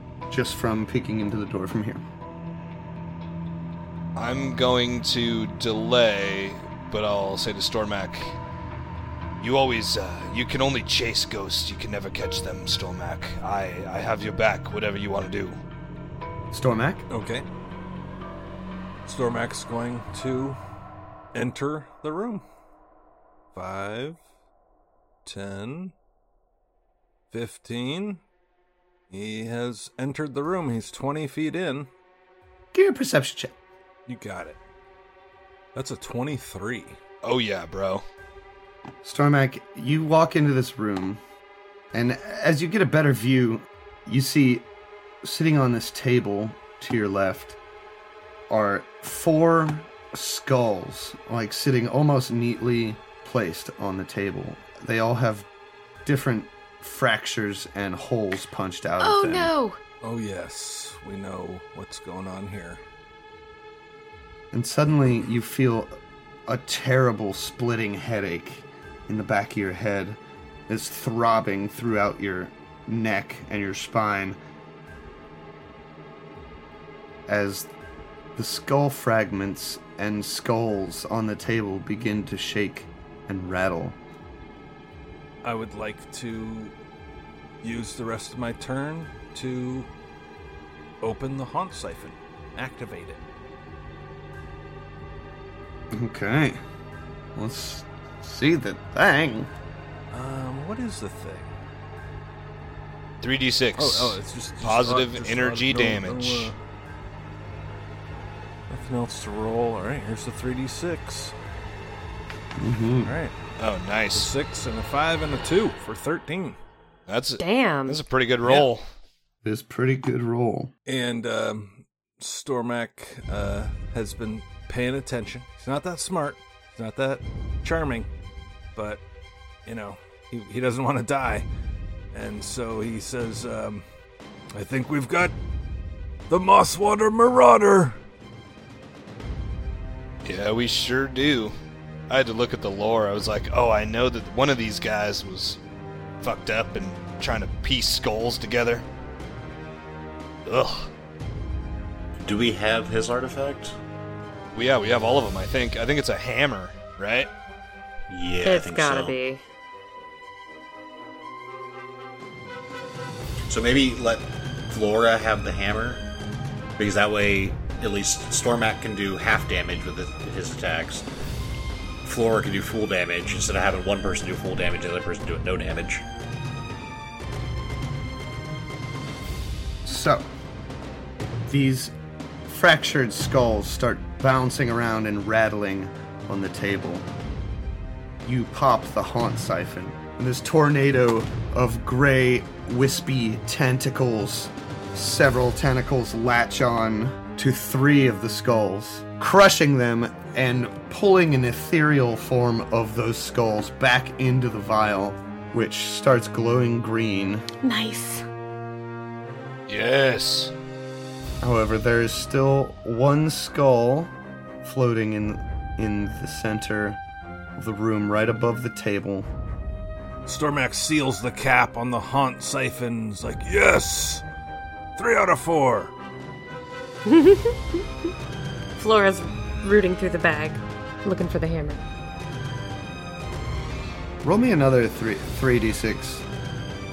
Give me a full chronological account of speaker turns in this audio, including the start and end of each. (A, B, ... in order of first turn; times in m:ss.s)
0:00.3-0:02.0 A
0:04.2-0:08.4 B
0:09.4-0:15.6 B
0:16.5-0:17.1 A
0:17.1-0:17.5 C
0:19.1-0:20.6 C
0:21.3-0:22.4 C
0:23.5-0:24.2 C
0:25.2-0:25.9 C
0:27.3-0:28.2 C
0:29.1-0:31.9 C
0:32.7-0:33.5 A
0:34.1-0:34.6 C
0:35.8-0:37.0 C
0:37.2-0:38.0 B
0:39.0-0:41.2 A
0:41.9-0:44.7 A
0:45.2-0:47.6 A
0:48.5-0:55.5 A
0:56.0-0:59.5 A
0:59.0-0:59.8 D
1:00.0-1:02.8 C
1:04.5-1:14.4 A
1:17.3-1:17.7 A
1:18.4-1:24.0 A
1:25.4-1:26.7 C
1:27.6-1:29.9 C
1:31.0-1:33.2 C
1:35.9-1:36.6 A
1:37.4-1:39.5 A
1:40.1-1:41.5 C
1:43.2-1:46.5 B
1:43.8-1:46.6 C
1:48.7-1:51.4 C
1:52.6-1:53.2 A
1:53.0-1:53.3 C
1:53.6-1:54.3 B
1:54.1-1:56.6 C
1:57.1-1:58.8 B
1:57.4-1:58.0 D
1:58.4-1:58.7 C
1:59.4-2:00.7 A
2:00.9-2:08.1 C
2:08.8-2:09.0 C
2:09.7-2:11.5 C
2:12.1-2:13.8 C
2:14.5-2:15.3 C
2:16.3-2:18.0 C
2:20.2-2:21.5 B
2:22.1-2:25.6 B
2:26.2-2:28.9 B
2:30.4-2:30.9 B
2:32.2-2:33.8 E
2:34.5-2:37.3 B
2:38.1-2:39.2 E
2:38.4-2:39.4 D
2:43.5-2:46.0 E
2:46.8-2:51.1 E
2:52.0-2:56.0 E
2:59.8-3:00.3 A
3:01.5-3:01.9 A
3:02.4-3:07.1 A
3:08.2-3:27.5 A
3:27.6-3:28.3 D
3:29.7-3:30.5 B
3:31.4-3:37.0 A
3:37.6-3:39.3 A
3:40.3-3:44.2 C
3:45.0-3:45.9 C
3:47.0-3:47.8 D
3:48.8-3:51.8 D
3:54.2-3:56.2 A